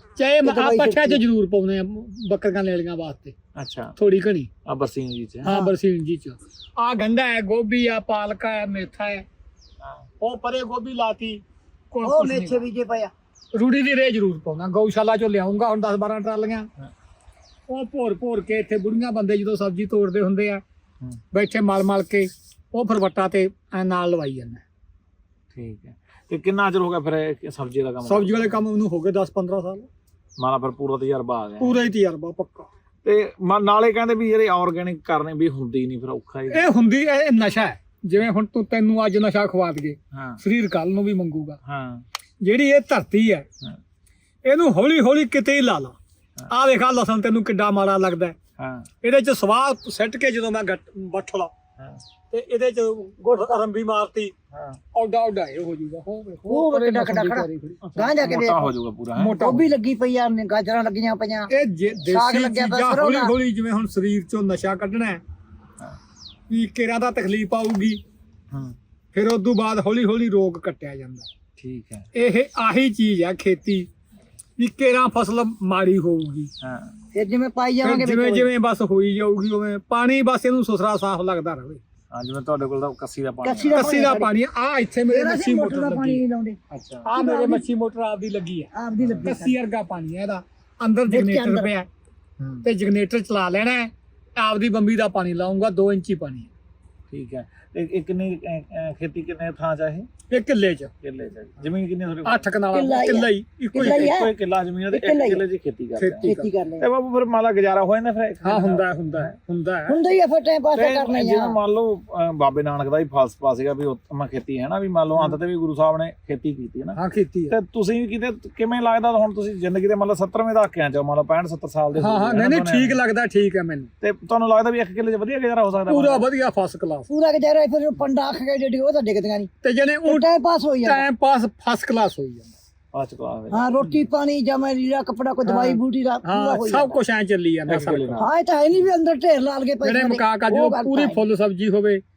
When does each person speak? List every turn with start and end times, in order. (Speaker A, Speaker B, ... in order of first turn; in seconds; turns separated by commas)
Speaker A: 0.2-3.4, Speaker B: 0.4-1.2, Speaker C: 3.5-4.0, Speaker A: 4.0-4.5, Speaker C: 4.7-5.6, Speaker A: 5.4-9.3, Speaker B: 5.5-5.7, Speaker A: 10.2-12.6, Speaker B: 12.0-13.1, Speaker A: 13.5-16.7, Speaker A: 17.7-20.6, Speaker A: 21.3-24.6, Speaker C: 25.5-28.6, Speaker A: 28.1-29.9, Speaker C: 30.4-31.8, Speaker A: 31.6-32.7, Speaker C: 33.0-36.7, Speaker A: 36.5-41.6, Speaker C: 40.1-40.4, Speaker C: 41.7-42.0, Speaker A: 42.4-43.5, Speaker A: 44.5-46.0, Speaker A: 46.5-48.4, Speaker C: 48.6-48.9, Speaker A: 49.0-51.5, Speaker A: 52.3-54.3, Speaker C: 54.5-54.8, Speaker A: 54.9-58.3, Speaker B: 56.5-61.5, Speaker C: 57.8-59.5, Speaker A: 59.2-59.7, Speaker A: 61.5-65.2, Speaker B: 62.1-63.3, Speaker A: 66.5-68.0, Speaker A: 69.1-71.3, Speaker C: 71.6-72.1, Speaker A: 72.2-73.9, Speaker A: 74.6-76.5, Speaker C: 76.6-77.0, Speaker B: 77.1-78.5, Speaker A: 77.8-81.8, Speaker C: 82.1-83.9, Speaker B: 83.4-84.3, Speaker A: 83.7-86.2, Speaker B: 85.1-86.6, Speaker C: 86.7-87.1, Speaker A: 87.0-91.9, Speaker B: 87.2-87.6, Speaker B: 88.7-89.6, Speaker B: 91.1-91.7, Speaker A: 92.6-96.5, Speaker C: 97.1-100.1, Speaker A: 100.3-100.9, Speaker C: 101.0-102.5, Speaker A: 102.2-104.1, Speaker B: 102.7-104.3, Speaker C: 103.8-109.3, Speaker B: 104.9-105.4, Speaker A: 106.0-106.5, Speaker B: 106.2-106.9, Speaker A: 108.4-110.0, Speaker B: 109.9-111.6, Speaker C: 110.8-117.0, Speaker A: 117.0-117.6, Speaker C: 117.5-123.0, Speaker A: 122.0-123.9, Speaker C: 124.0-126.3, Speaker A: 125.9-127.1, Speaker B: 127.1-129.5, Speaker A: 129.6-130.3, Speaker B: 130.0-131.0, Speaker A: 130.8-132.5, Speaker C: 132.9-133.7, Speaker B: 133.5-137.0, Speaker A: 135.4-138.3, Speaker C: 137.7-138.3, Speaker B: 138.2-141.2, Speaker A: 139.8-142.0